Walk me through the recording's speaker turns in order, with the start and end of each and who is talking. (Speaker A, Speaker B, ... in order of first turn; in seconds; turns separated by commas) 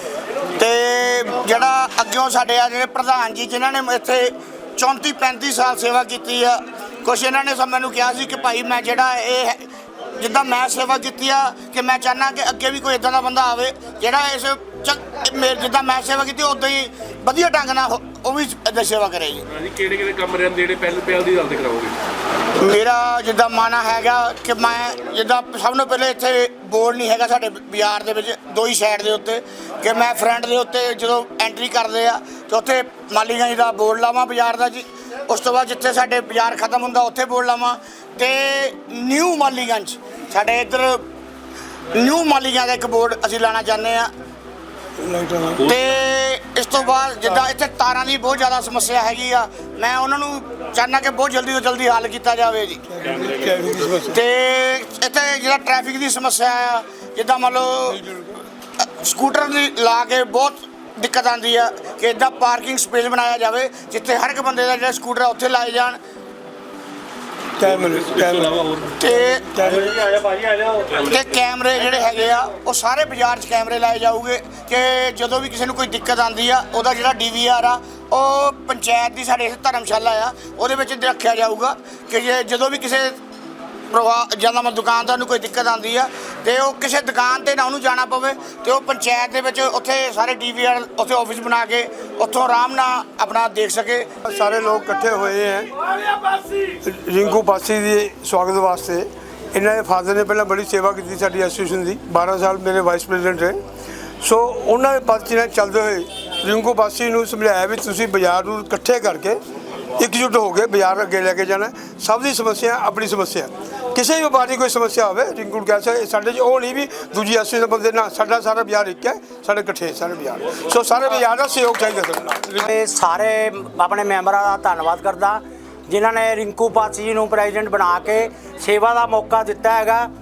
Speaker A: 0.6-19.5, Speaker B: 19.5-22.0, Speaker A: 22.6-41.0, Speaker A: 41.9-44.1, Speaker C: 45.0-45.6, Speaker A: 45.6-52.8, Speaker C: 52.9-54.2, Speaker B: 53.1-53.5, Speaker A: 54.0-58.0, Speaker C: 57.9-58.2, Speaker A: 58.8-66.0, Speaker C: 67.6-68.6, Speaker B: 67.6-68.9, Speaker A: 69.0-69.5, Speaker C: 69.2-70.0, Speaker D: 69.6-70.8, Speaker B: 70.8-71.2, Speaker A: 71.0-83.2, Speaker A: 83.9-94.1, Speaker C: 94.2-95.7, Speaker C: 96.7-103.6, Speaker C: 104.2-109.4, Speaker C: 110.0-122.7, Speaker D: 122.7-130.1